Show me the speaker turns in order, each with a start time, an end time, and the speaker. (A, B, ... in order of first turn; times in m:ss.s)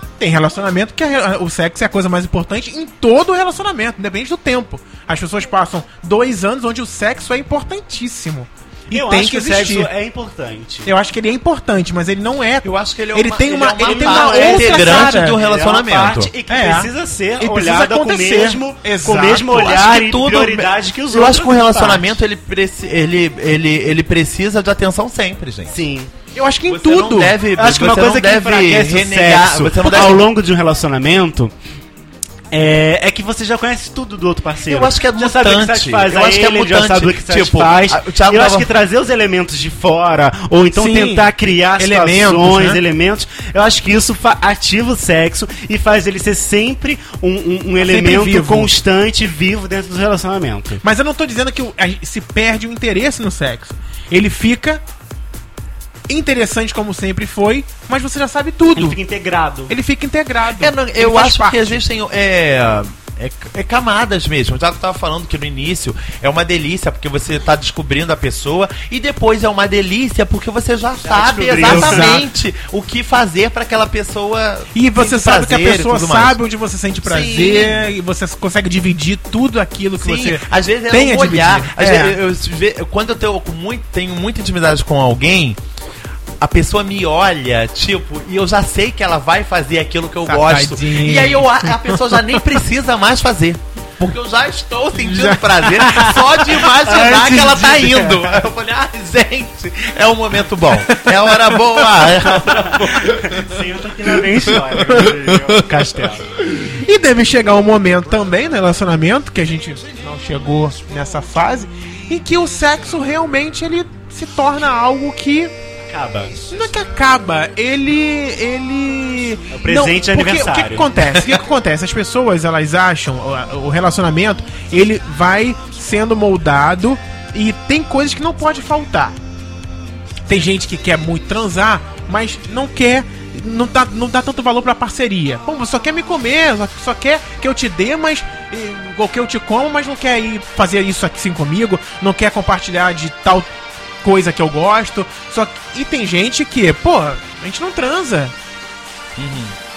0:00.2-0:09.9 A
0:08.9-0:10.9 B
0:10.8-0:15.4 A
0:12.6-0:16.3 C
0:13.8-0:22.1 B
0:16.5-0:19.6 A
0:19.5-0:25.7 C
0:25.7-0:26.1 B
0:26.3-0:27.4 A
0:26.7-0:30.2 C
0:27.6-0:31.5 B
0:32.5-0:50.8 B
0:34.7-0:38.7 C
0:40.7-0:42.8 A
0:47.8-0:48.7 A
0:50.8-0:54.8 A
0:56.1-0:59.0 A
0:58.7-0:59.7 B
0:59.7-1:01.8 A
1:00.6-1:16.4 C
1:11.0-1:12.2 B
1:11.6-1:12.2 A
1:14.7-1:22.2 A
1:17.0-1:17.9 C
1:20.0-1:25.6 C
1:26.4-1:43.6 C
1:30.2-1:32.4 A
1:35.0-1:36.1 A
1:35.9-1:38.4 B
1:40.9-1:42.1 A
1:42.4-1:46.3 B
1:44.3-1:45.8 C
1:46.4-1:55.5 A
1:55.9-1:56.4 B
1:56.5-2:09.2 A
1:59.5-2:00.9 B
2:10.3-2:23.5 A
2:24.0-2:28.3 A
2:29.2-2:29.6 C